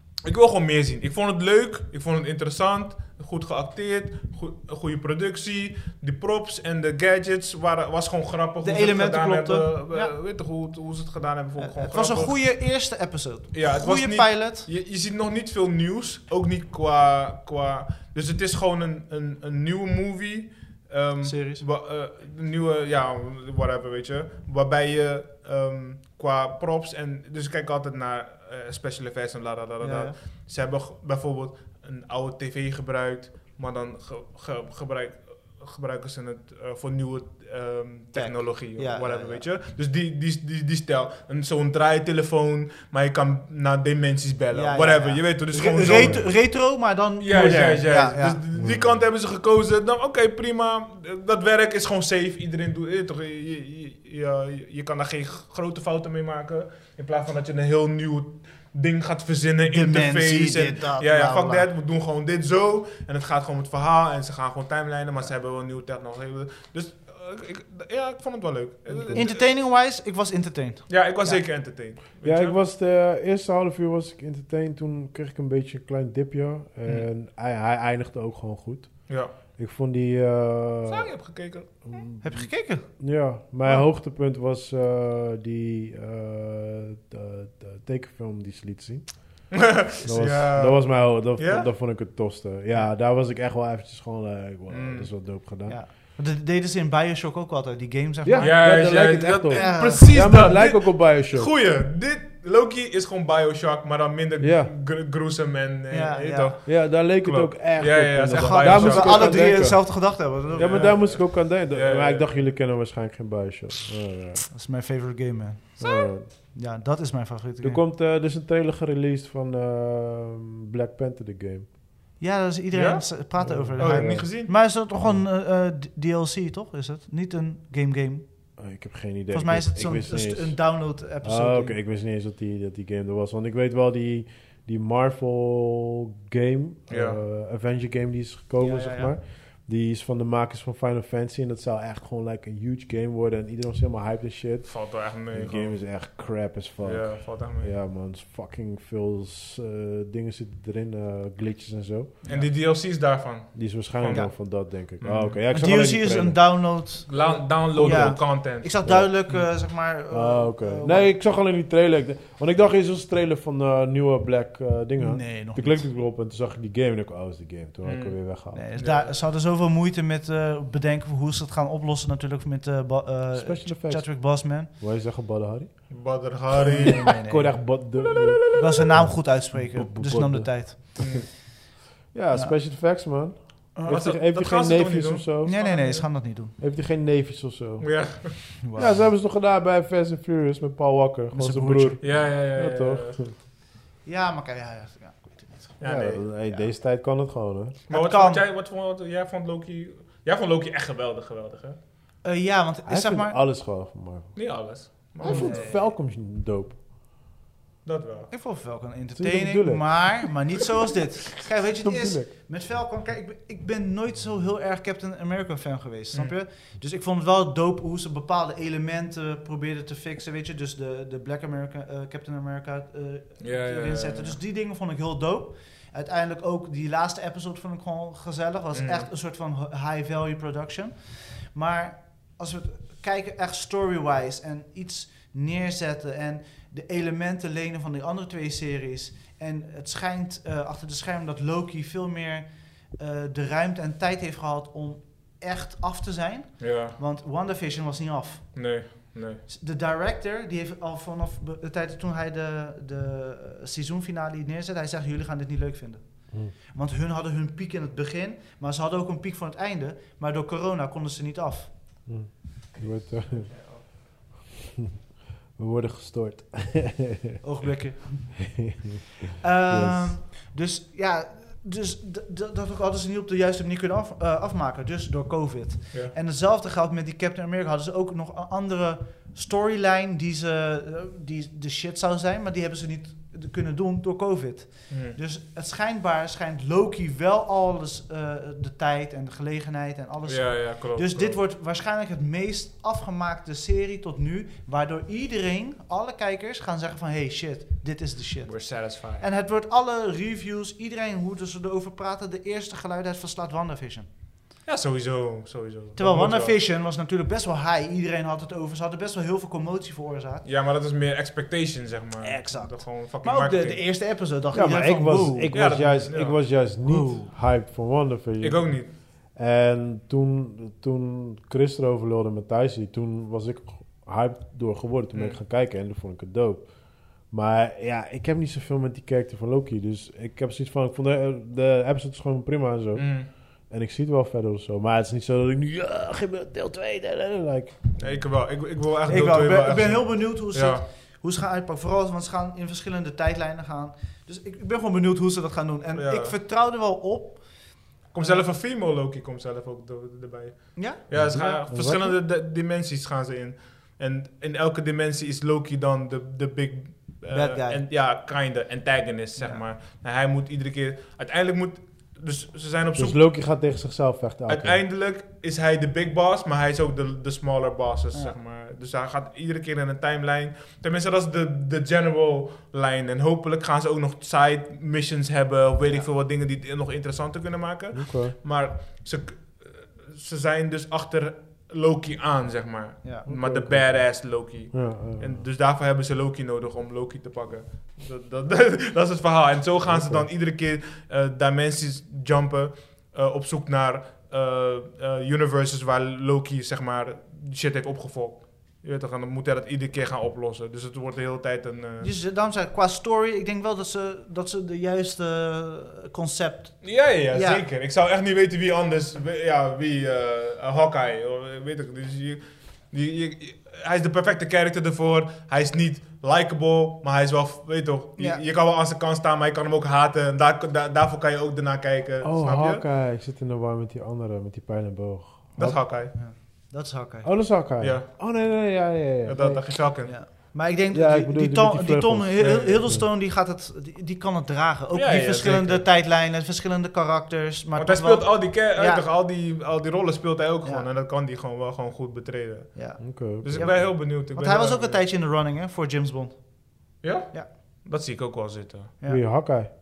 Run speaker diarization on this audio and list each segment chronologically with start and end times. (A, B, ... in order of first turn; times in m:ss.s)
0:00.2-0:12.4 A
0:08.6-0:10.1 B
0:11.6-0:14.7 B
0:13.5-0:46.4 A
0:21.2-0:21.6 B
0:29.8-0:30.2 B
0:38.1-0:39.4 B
0:44.5-0:48.4 B
0:45.9-0:46.3 C
0:47.2-1:09.5 A
0:48.6-0:49.0 C
0:59.7-1:01.7 B
1:08.9-1:09.3 C
1:09.1-1:11.4 B
1:10.9-1:12.6 A
1:12.2-1:21.1 C
1:19.1-1:19.3 A
1:20.9-1:22.0 A
1:21.9-1:35.8 C
1:22.2-1:22.9 B
1:29.5-1:31.7 A
1:34.7-1:35.1 A
1:35.7-1:38.8 B
1:38.2-1:41.5 C
1:38.4-1:49.7 A
1:39.5-1:40.2 B
1:44.4-1:44.7 C
1:45.9-1:46.6 B
1:46.7-1:54.5 C
1:48.4-1:51.0 B
1:50.5-1:52.4 A
1:54.5-1:57.8 B
1:55.8-1:56.3 C
1:57.6-2:01.7 C
2:02.2-2:08.2 B
2:02.7-2:04.6 A
2:03.4-2:04.3 C
2:05.0-2:05.2 C
2:08.6-2:32.2 C
2:09.3-2:11.8 B
2:16.9-2:17.2 A
2:18.6-2:19.1 B
2:24.6-2:25.9 A
2:26.8-2:27.8 A
2:32.2-2:32.5 B
2:32.2-2:35.4 A
2:33.5-2:36.4 C
2:34.1-2:34.3 B
2:35.5-2:41.1 B
2:37.1-2:38.7 A
2:37.1-2:39.2 C
2:40.1-2:48.6 C
2:45.0-2:45.9 B
2:47.8-2:48.2 A
2:48.5-2:54.7 B
2:48.8-2:49.2 A
2:53.3-2:56.0 C
2:55.9-2:57.2 A
2:56.6-2:57.8 B
2:56.8-3:01.3 C
2:58.5-3:01.2 B
3:01.0-3:01.3 A
3:02.1-3:05.5 C
3:03.8-3:04.0 B
3:03.9-3:06.1 A
3:05.4-3:06.6 B
3:06.6-3:08.2 C
3:07.8-3:08.5 A
3:08.6-3:09.0 B
3:08.8-3:13.4 C
3:11.3-3:12.0 B
3:12.0-3:13.2 A
3:14.0-3:15.8 B
3:15.8-3:16.2 A
3:15.8-3:17.8 C
3:16.4-3:16.7 B
3:17.9-3:21.8 A
3:17.9-3:18.4 B
3:22.2-3:23.4 B
3:22.9-3:24.4 C
3:24.4-3:25.8 A
3:25.2-3:26.8 C
3:25.2-3:25.7 B
3:27.8-3:28.3 A
3:28.3-4:08.7 B
3:29.2-3:30.3 C
3:31.8-3:32.3 C
3:43.4-3:44.4 A
3:48.7-3:49.1 A
4:06.6-4:07.0 A
4:08.5-4:09.4 A
4:09.5-4:21.7 B
4:22.1-4:23.5 C
4:23.3-4:23.7 A
4:25.6-4:27.4 C
4:27.4-4:28.6 B
4:28.6-4:29.0 C
4:29.4-5:04.1 B
4:29.7-4:30.2 C
4:44.9-4:45.2 A
4:50.3-4:51.4 A
4:58.5-4:59.3 A
5:04.7-5:06.6 A
5:06.0-5:10.4 B
5:10.4-5:13.8 A
5:12.2-5:15.6 B
5:14.5-5:38.1 C
5:15.5-5:16.5 A
5:16.8-5:17.3 B
5:18.4-5:18.9 A
5:25.1-5:25.4 A
5:33.0-5:33.3 A
5:38.0-5:40.8 A
5:39.1-5:48.4 B
5:46.0-5:46.4 A
5:48.1-6:03.2 A
5:50.8-5:51.4 B
5:51.1-5:52.2 C
5:57.3-5:57.8 B
6:03.0-6:04.8 C
6:04.5-6:42.1 A
6:17.9-6:18.4 C
6:23.3-6:25.5 C
6:29.9-6:30.3 C
6:42.0-6:47.6 B
6:46.8-7:02.8 A
6:58.2-6:58.4 B
7:02.2-7:05.8 C
7:05.6-7:06.1 A
7:06.1-7:07.3 B
7:07.2-7:09.7 C
7:07.8-7:08.7 A
7:09.2-7:10.2 A
7:10.0-7:19.0 B
7:10.9-7:13.1 C
7:12.4-7:12.8 A
7:14.9-7:15.9 A
7:17.8-7:25.0 A
7:22.8-7:26.4 B
7:23.0-7:23.7 C
7:27.0-7:28.9 A
7:29.1-7:29.7 C